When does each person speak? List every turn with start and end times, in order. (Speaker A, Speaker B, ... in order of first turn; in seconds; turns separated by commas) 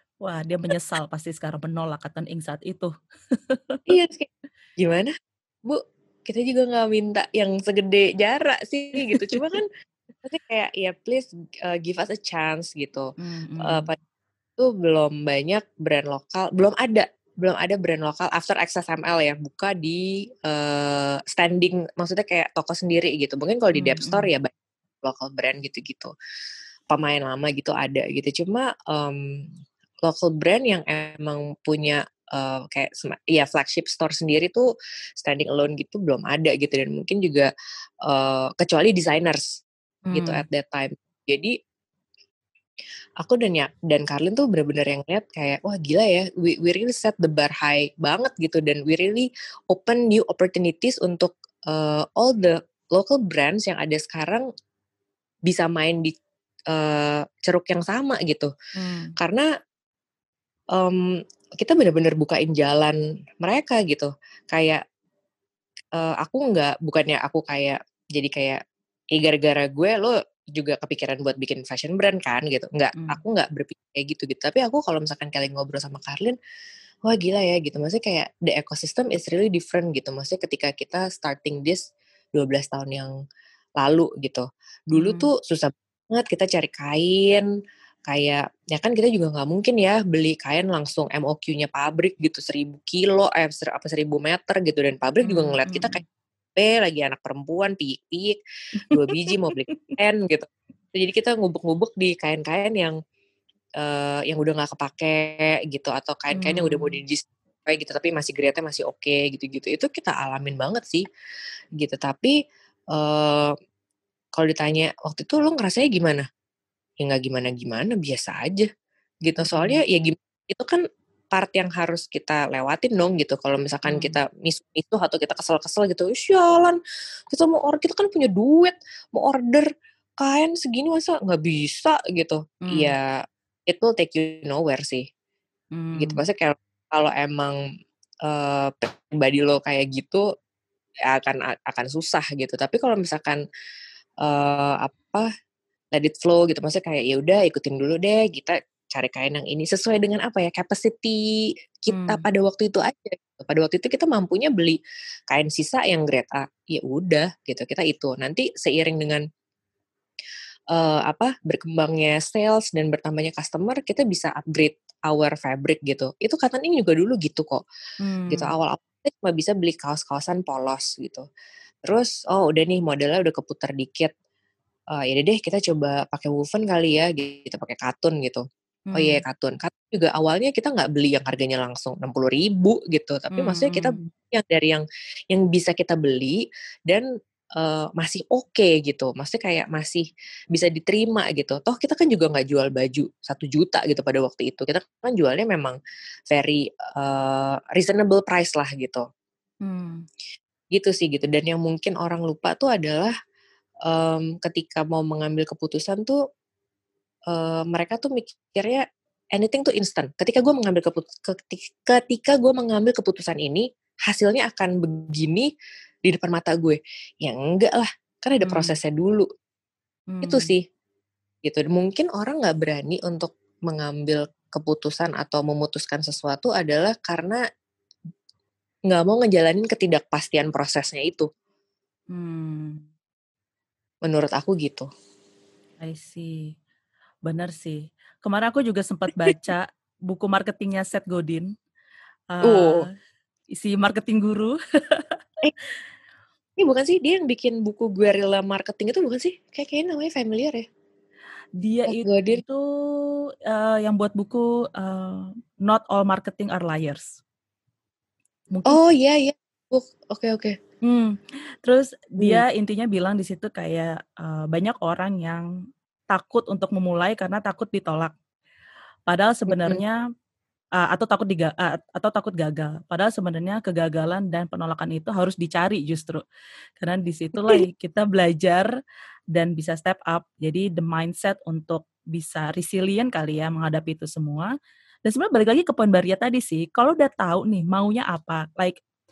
Speaker A: 0.2-3.9, Speaker B: 3.9-5.1, Speaker B: 5.7-9.7, Speaker A: 9.1-9.4, Speaker B: 10.2-13.1, Speaker A: 13.2-13.9, Speaker B: 13.6-14.0, Speaker B: 14.6-26.1, Speaker A: 23.8-24.3, Speaker B: 26.9-29.4, Speaker B: 30.0-34.7, Speaker B: 35.2-37.5, Speaker B: 38.1-39.5, Speaker A: 40.1-40.4, Speaker B: 40.1-41.5, Speaker B: 43.2-54.5, Speaker B: 55.5-56.1, Speaker B: 56.7-58.5, Speaker A: 58.8-59.1, Speaker B: 59.2-59.5, Speaker B: 60.8-61.0, Speaker B: 61.6-64.8, Speaker B: 66.0-68.6, Speaker B: 69.1-76.4, Speaker B: 77.1-81.8, Speaker B: 82.4-83.1, Speaker B: 83.8-87.5, Speaker A: 85.0-85.3, Speaker B: 88.1-96.0, Speaker A: 95.2-96.0, Speaker B: 96.5-98.4, Speaker A: 98.8-99.1, Speaker B: 98.9-103.0, Speaker A: 99.7-99.9, Speaker B: 103.8-111.0, Speaker A: 106.3-107.0, Speaker B: 111.8-112.3, Speaker B: 112.9-113.5, Speaker B: 114.4-116.2, Speaker B: 117.0-118.7, Speaker B: 119.2-126.8, Speaker A: 119.4-119.8, Speaker A: 123.9-124.2, Speaker B: 127.3-129.7, Speaker B: 130.2-135.1, Speaker A: 132.7-132.9, Speaker A: 135.7-136.2, Speaker B: 136.0-137.6, Speaker B: 138.2-140.2, Speaker B: 141.1-143.4, Speaker B: 144.2-145.2, Speaker B: 145.9-151.2, Speaker B: 151.9-154.8, Speaker A: 151.9-152.2, Speaker B: 155.3-159.2, Speaker B: 160.7-167.6, Speaker A: 168.0-168.5, Speaker B: 168.3-171.2, Speaker B: 171.9-174.1, Speaker B: 175.0-178.4, Speaker A: 178.9-179.2, Speaker B: 178.9-187.1, Speaker A: 183.3-184.1, Speaker B: 187.6-195.8, Speaker B: 196.3-199.0, Speaker A: 199.6-200.1, Speaker B: 200.7-203.1, Speaker B: 203.9-206.2, Speaker B: 207.3-208.8, Speaker B: 209.3-215.5, Speaker B: 216.1-219.3, Speaker A: 218.5-218.8, Speaker A: 220.1-220.5, Speaker B: 220.2-220.6, Speaker B: 221.4-227.4, Speaker B: 228.9-231.3, Speaker A: 232.1-232.8, Speaker B: 234.1-234.9, Speaker A: 235.8-236.5, Speaker A: 237.2-241.5, Speaker A: 242.3-242.9, Speaker B: 242.4-242.9, Speaker A: 243.5-245.2, Speaker B: 246.6-250.7, Speaker A: 251.6-257.2, Speaker B: 251.9-252.4, Speaker A: 258.5-258.8, Speaker B: 258.7-260.6, Speaker A: 260.8-265.4, Speaker B: 262.2-262.4, Speaker A: 266.1-268.1, Speaker A: 269.1-270.0, Speaker B: 269.5-269.8, Speaker A: 270.8-276.2, Speaker A: 276.8-278.7, Speaker A: 279.3-284.5, Speaker A: 285.1-288.8